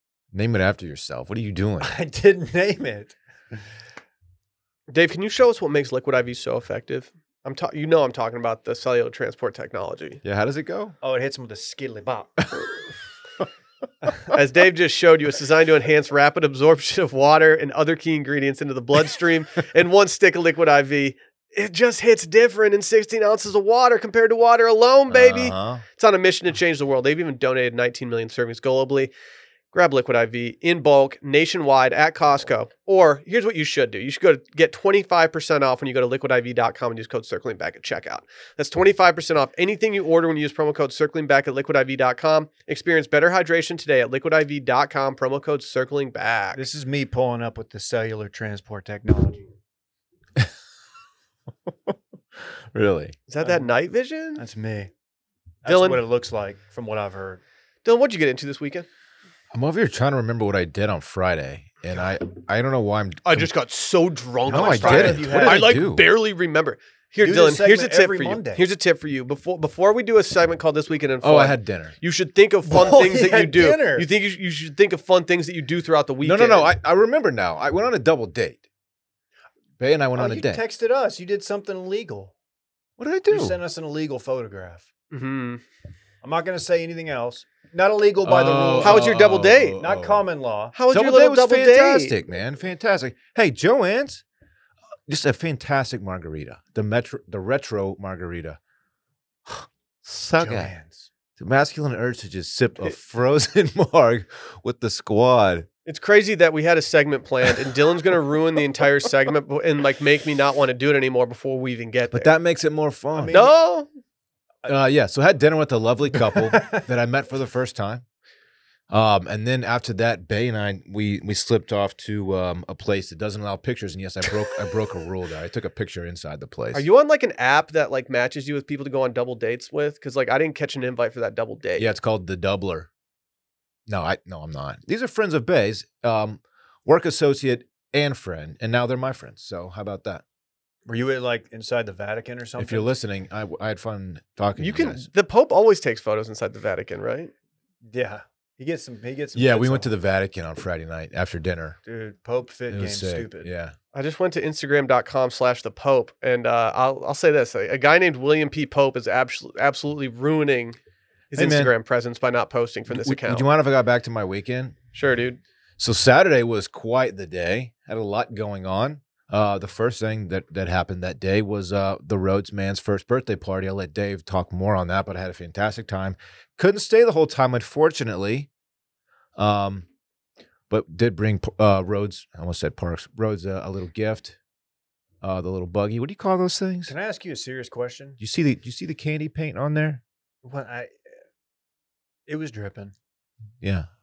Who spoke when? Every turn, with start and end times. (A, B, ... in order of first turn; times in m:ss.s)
0:00.3-0:02.0 A
0:01.8-0:03.2 B
0:04.9-0:10.2 C
0:10.2-0:11.0 A
0:11.0-0:12.4 B
0:14.3-0:29.1 C
0:25.1-0:25.8 A
0:29.7-0:46.6 C
0:46.5-0:49.5 B
0:51.7-0:53.2 A
0:53.3-0:54.4 C
0:53.4-0:53.7 B
0:54.4-0:54.9 B
0:55.6-0:57.4 B
0:55.7-0:56.0 C
0:57.8-0:58.9 C
0:59.5-1:03.5 A
1:03.2-1:16.7 C
1:04.5-1:06.0 A
1:04.5-1:05.7 B
1:07.2-1:08.6 B
1:11.2-1:12.0 A
1:12.7-1:14.1 B
1:16.2-1:18.6 A
1:19.8-1:20.6 A
1:20.2-1:22.3 B
1:23.0-1:23.6 A
1:23.3-1:24.9 B
1:25.1-1:25.6 C
1:26.2-1:29.1 B
1:28.2-1:30.3 A
1:28.8-1:29.8 C
1:29.8-1:30.8 B
1:30.8-1:32.2 C
1:30.9-1:34.2 A
1:35.1-1:38.6 A
1:39.5-1:40.7 A
1:40.4-1:41.1 B
1:41.4-1:45.7 A
1:45.9-1:52.3 C
1:52.1-1:53.4 A
1:53.2-1:53.5 B
1:53.3-1:53.9 C
1:54.7-1:58.0 A
1:56.3-1:56.8 B
1:58.9-2:06.9 A
2:06.7-2:11.9 C
2:11.8-2:12.9 A
2:13.9-2:20.2 A
2:20.9-2:22.9 B
2:22.6-2:25.1 A
2:24.6-2:27.3 C
2:27.9-2:29.9 B
2:29.4-2:31.8 A
2:31.9-2:33.5 B
2:32.7-2:33.8 A
2:33.9-2:40.8 C
2:41.3-2:43.5 C
2:41.3-2:41.7 A
2:42.9-2:44.8 A
2:44.9-2:45.4 C
2:45.8-2:58.5 A
2:59.4-2:59.9 A
3:00.7-3:04.4 A
3:05.2-3:06.9 A
3:06.9-3:08.2 B
3:08.2-3:10.0 A
3:10.4-3:11.0 B
3:12.3-3:13.0 B
3:13.6-3:13.9 A